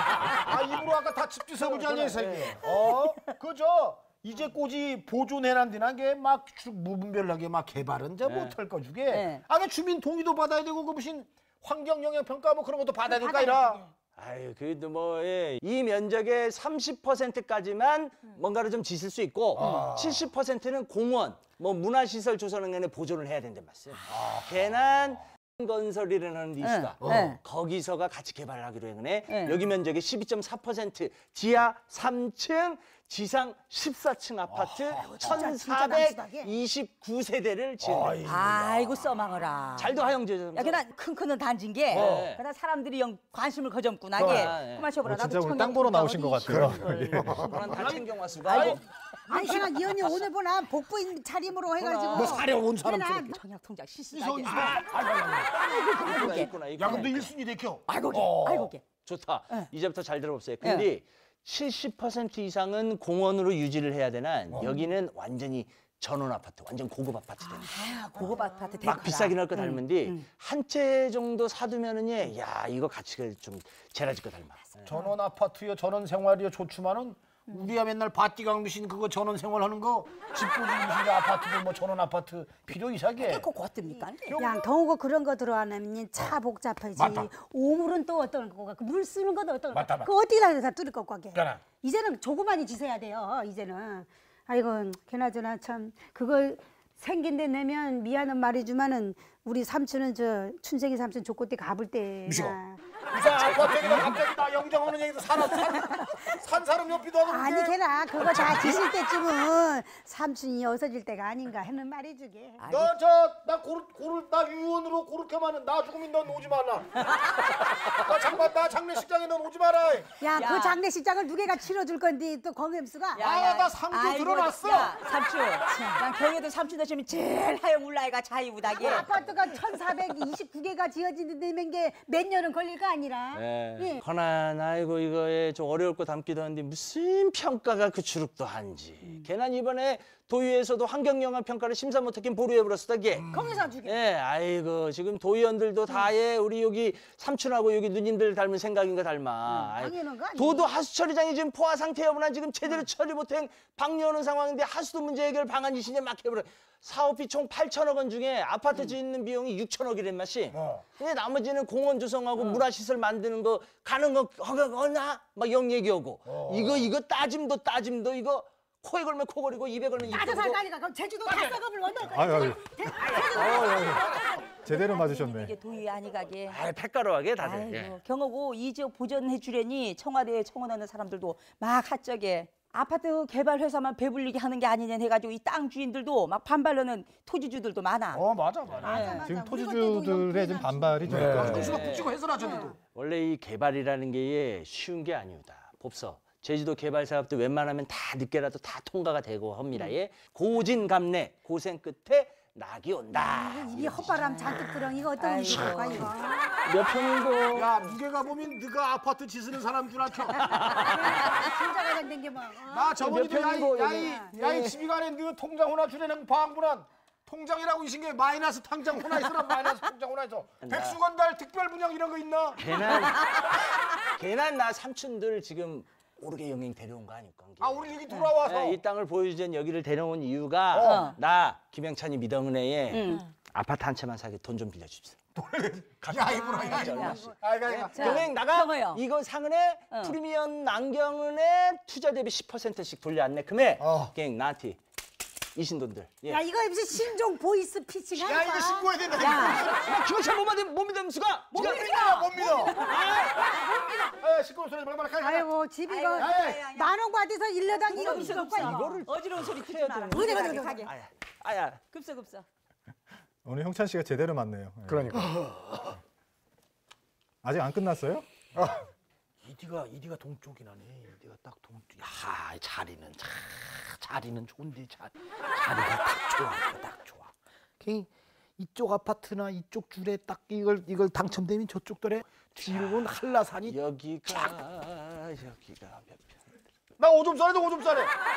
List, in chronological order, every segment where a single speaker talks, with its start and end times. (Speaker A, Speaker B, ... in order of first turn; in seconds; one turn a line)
Speaker A: 0.3-13.8
Speaker B: 1.6-2.6
Speaker B: 8.2-8.6
Speaker C: 9.1-9.4
Speaker D: 13.1-13.9
Speaker B: 14.2-38.2
Speaker A: 19.6-20.3
Speaker A: 24.1-24.5
Speaker C: 26.6-27.4
Speaker A: 27.0-27.3
Speaker C: 29.3-29.6
Speaker A: 34.5-35.4
Speaker D: 35.0-36.5
Speaker A: 37.8-38.8
Speaker C: 38.2-47.2
Speaker B: 39.8-40.8
Speaker B: 41.9-42.4
Speaker A: 41.9-42.3
Speaker B: 44.2-44.9
Speaker E: 44.2-44.5
Speaker E: 45.0-47.6
Speaker A: 46.6-48.8
Speaker B: 47.3-48.8
Speaker D: 48.5-53.4
Speaker C: 48.5-48.8
Speaker C: 49.3-49.8
Speaker B: 49.9-50.3
Speaker B: 51.8-52.4
Speaker A: 52.0-53.4
Speaker C: 53.2-54.9
Speaker A: 54.1-58.7
Speaker B: 55.6-57.3
Speaker C: 55.6-56.5
Speaker C: 57.9-59.0
Speaker B: 58.9-74.9
Speaker C: 60.6-60.9
Speaker C: 64.6-64.8
Speaker C: 67.4-70.2
Speaker A: 74.8-83.5
Speaker C: 83.2-84.4
Speaker A: 84.2-84.7
Speaker D: 84.4-102.8
Speaker A: 87.0-87.3
Speaker A: 89.7-90.1
Speaker A: 91.3-91.6
Speaker A: 102.3-102.6
Speaker A: 103.1-108.8
Speaker D: 107.3-112.6
Speaker C: 112.6-112.9
Speaker A: 112.7-117.0
Speaker C: 117.0-117.5
Speaker A: 117.8-120.2
Speaker D: 120.2-123.2
Speaker C: 120.3-120.8
Speaker C: 123.1-129.1
Speaker A: 123.2-124.9
Speaker D: 128.7-134.0
Speaker B: 133.3-143.3
Speaker D: 143.3-143.9
Speaker B: 143.8-170.6
Speaker D: 149.5-150.7
Speaker A: 160.5-160.8
Speaker C: 162.3-162.6
Speaker A: 166.2-166.9
Speaker D: 170.0-174.6
Speaker A: 171.3-171.5
Speaker E: 172.0-172.6
Speaker E: 173.2-175.5
Speaker C: 174.6-176.6
Speaker B: 176.5-178.0
Speaker C: 177.4-188.2
Speaker A: 188.1-189.2
Speaker C: 188.8-189.3
Speaker D: 188.8-191.4
Speaker E: 189.1-191.8
Speaker A: 191.1-192.8
Speaker B: 191.5-204.8
Speaker D: 192.4-192.7
Speaker D: 203.2-206.5
Speaker C: 204.1-206.1
Speaker B: 205.5-206.1
Speaker B: 206.7-207.7
Speaker A: 207.5-210.6
Speaker B: 210.4-211.2
Speaker C: 210.7-211.5
Speaker D: 210.8-213.1
Speaker A: 212.7-222.8
Speaker B: 213.0-214.7
Speaker D: 213.9-214.3
Speaker B: 220.6-221.0
Speaker B: 222.6-235.2
Speaker C: 223.0-223.4
Speaker A: 227.6-228.8
Speaker C: 228.1-228.3
Speaker A: 230.7-231.1
Speaker C: 230.8-231.2
Speaker C: 232.9-233.3
Speaker A: 235.3-238.1
Speaker B: 236.0-244.8
Speaker D: 236.5-237.3
Speaker C: 236.8-237.3
Speaker C: 237.9-239.0
Speaker D: 237.9-238.3
Speaker A: 243.8-244.1
Speaker B: 245.5-246.4
Speaker D: 246.3-249.6
Speaker A: 248.1-249.6
Speaker C: 249.1-249.7
Speaker B: 249.4-251.9
Speaker A: 251.5-252.9
Speaker D: 251.5-254.2
Speaker C: 251.6-252.6
Speaker B: 252.5-253.4
Speaker C: 253.3-253.8
Speaker A: 254.2-255.5
Speaker D: 255.2-259.0
Speaker C: 255.8-257.0
Speaker A: 256.2-256.6
Speaker C: 257.6-260.9
Speaker B: 257.9-261.8
Speaker D: 260.1-260.9
Speaker C: 261.8-262.4
Speaker E: 263.4-265.3
Speaker A: 264.9-265.7
Speaker E: 267.4-268.2
Speaker A: 268.6-268.8
Speaker A: 269.4-283.8
Speaker B: 282.7-283.1
Speaker B: 283.6-286.4
Speaker A: 287.0-288.1